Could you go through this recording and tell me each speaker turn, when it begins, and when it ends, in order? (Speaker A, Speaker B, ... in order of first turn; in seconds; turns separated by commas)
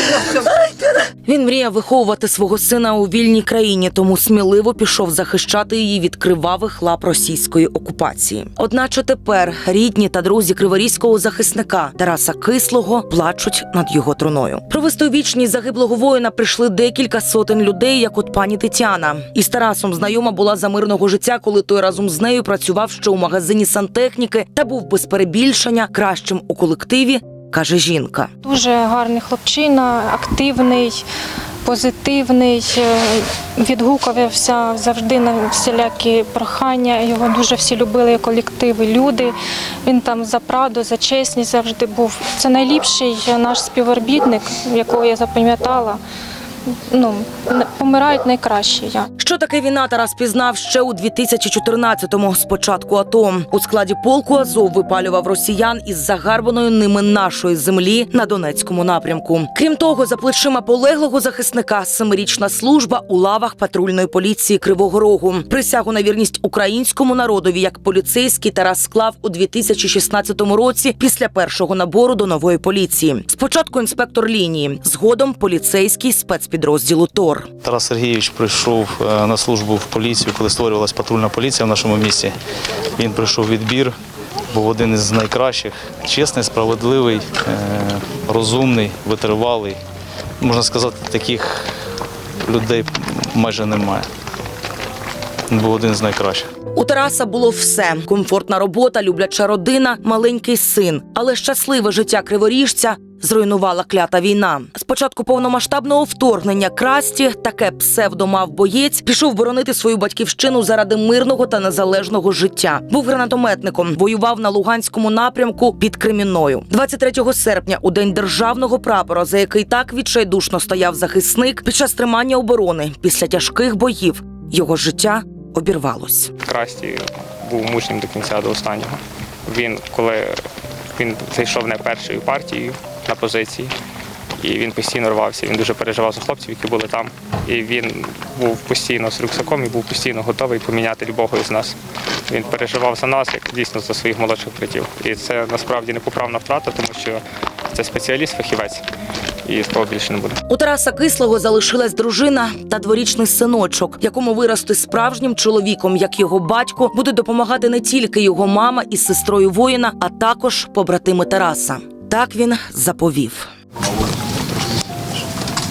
Speaker A: 0.3-28.3, Speaker B: 28.4-31.0, Speaker B: 31.6-46.0, Speaker B: 46.7-49.1, Speaker A: 49.2-77.5, Speaker C: 77.6-82.3, Speaker C: 83.0-83.9, Speaker C: 84.5-89.8, Speaker C: 90.4-91.7, Speaker C: 92.4-94.1, Speaker C: 95.5-96.5, Speaker A: 96.7-126.3, Speaker D: 126.4-130.4, Speaker D: 130.9-133.7, Speaker D: 134.4-141.8, Speaker D: 142.3-148.8, Speaker D: 149.4-150.4, Speaker A: 150.5-163.5